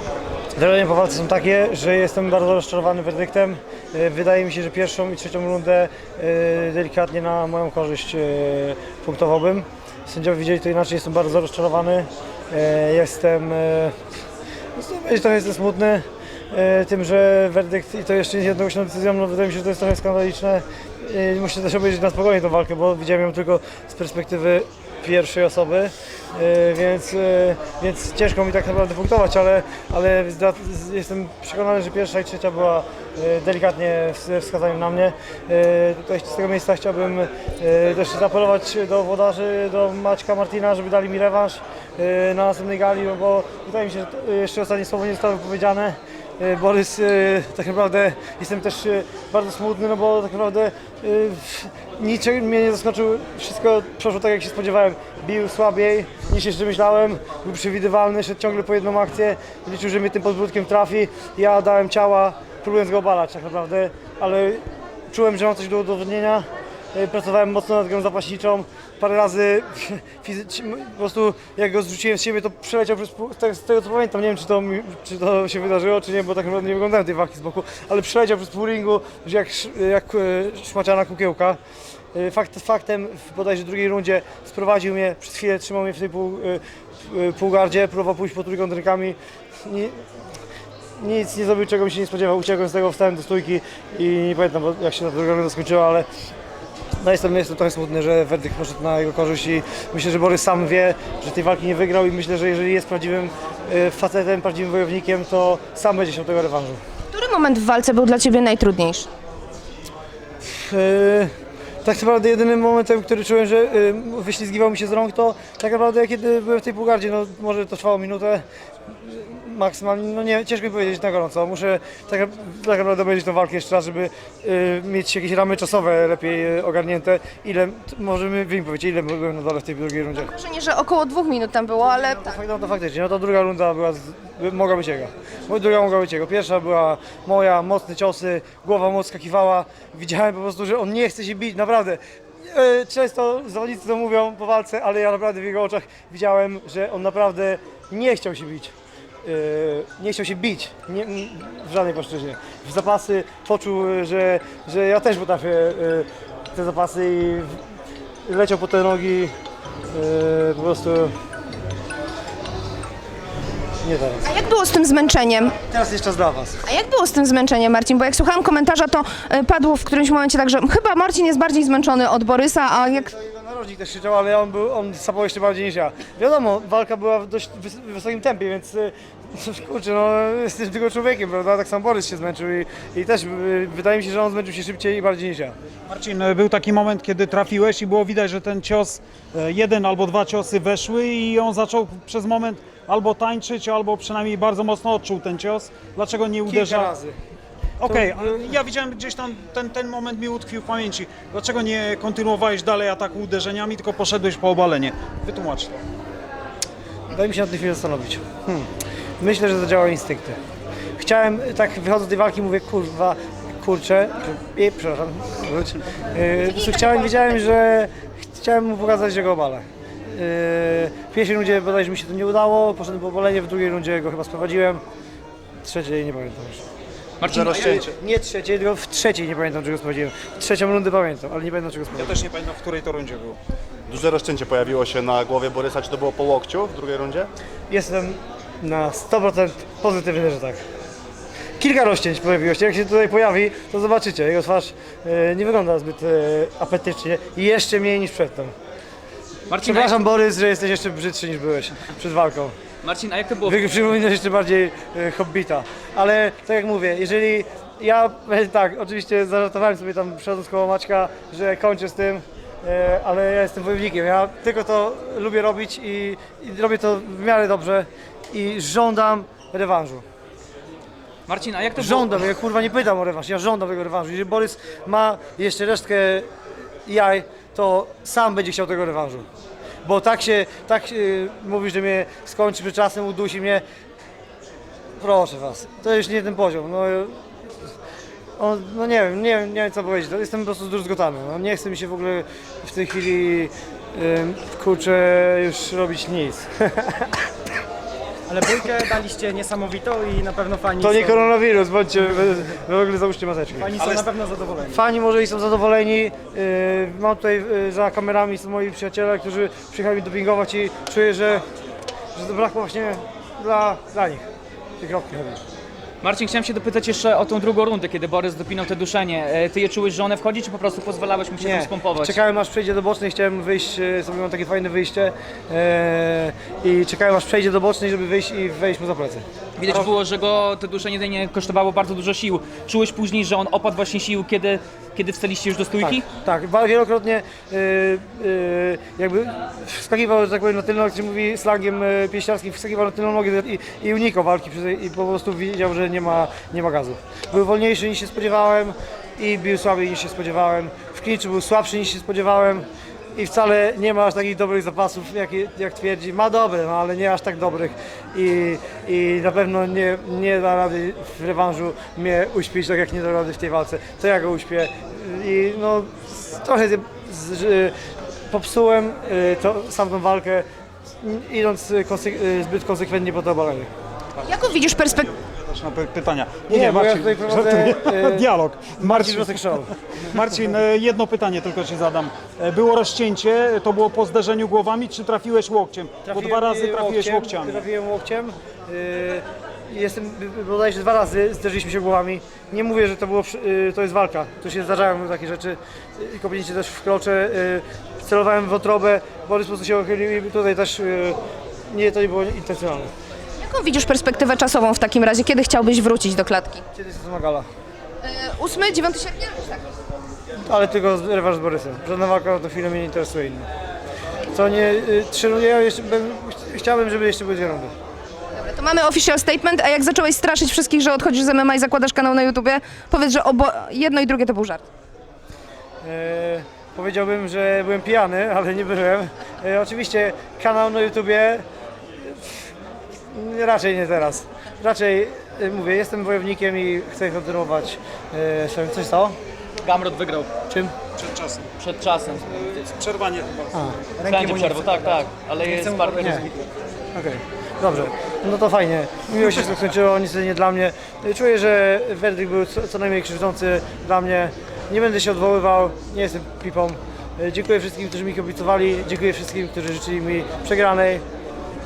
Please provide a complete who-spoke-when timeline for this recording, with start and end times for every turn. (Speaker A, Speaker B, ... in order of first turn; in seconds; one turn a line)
Speaker A: 0.6-13.9
Speaker A: 14.8-81.6
Speaker A: 82.1-90.0
Speaker A: 91.0-96.1
Speaker A: 97.0-106.8
Speaker B: 107.1-109.1
Speaker A: 110.4-111.3
Speaker A: 111.8-130.3
Speaker B: 130.2-132.4
Speaker A: 132.1-157.6
Speaker A: 158.3-159.3
Speaker A: 159.9-161.1
Speaker A: 163.8-164.3
Speaker B: 164.2-165.6
Speaker A: 165.7-166.6
Speaker B: 166.7-173.1
Speaker A: 172.9-185.6
Speaker C: 185.9-196.9
Speaker A: 196.5-197.2
Speaker C: 197.8-205.8
Speaker A: 197.9-198.3
Speaker A: 207.1-208.6
Speaker A: 209.2-210.4
Speaker A: 211.0-224.8
Speaker B: 216.4-217.3
Speaker A: 225.6-226.6
Speaker D: 227.2-227.9
Speaker E: 227.2-228.0
Speaker A: 227.7-232.2
Speaker C: 231.9-233.4
Speaker E: 233.9-237.3
Speaker A: 237.7-240.6
Speaker A: 241.6-248.5
Speaker D: 249.5-250.0
Speaker A: 249.6-252.6
Speaker D: 252.8-253.6
Speaker A: 253.4-270.1
Speaker D: 271.3-272.2
Speaker A: 271.8-276.3
Speaker A: 276.9-279.3
Speaker A: 279.8-283.6
Speaker A: 285.0-287.2
Speaker A: 288.4-297.2
Speaker F: 298.3-301.3
Speaker A: 300.8-304.0
Speaker F: 303.6-304.8
Speaker A: 304.6-311.4
Speaker A: 312.1-314.3
Speaker A: 314.8-315.4
Speaker D: 316.0-322.2
Speaker A: 321.4-329.9
Speaker D: 329.6-336.1
Speaker A: 335.8-367.7
Speaker A: 368.3-370.5
Speaker A: 371.0-373.7
Speaker B: 374.2-375.2
Speaker C: 375.2-387.6
Speaker A: 376.5-379.7
Speaker A: 386.1-401.2
Speaker A: 401.7-402.9
Speaker B: 403.4-406.6
Speaker A: 406.8-407.5
Speaker B: 408.0-409.6
Speaker A: 410.4-413.5
Speaker A: 414.3-417.7
Speaker B: 418.3-424.6
Speaker A: 425.8-431.4
Speaker A: 432.0-432.5
Speaker A: 433.1-439.2
Speaker D: 439.6-440.3
Speaker A: 440.5-440.8
Speaker C: 441.0-441.5
Speaker D: 441.6-442.2
Speaker C: 442.3-443.5
Speaker A: 443.5-443.8
Speaker F: 444.0-446.4
Speaker D: 444.1-446.3
Speaker A: 446.9-461.0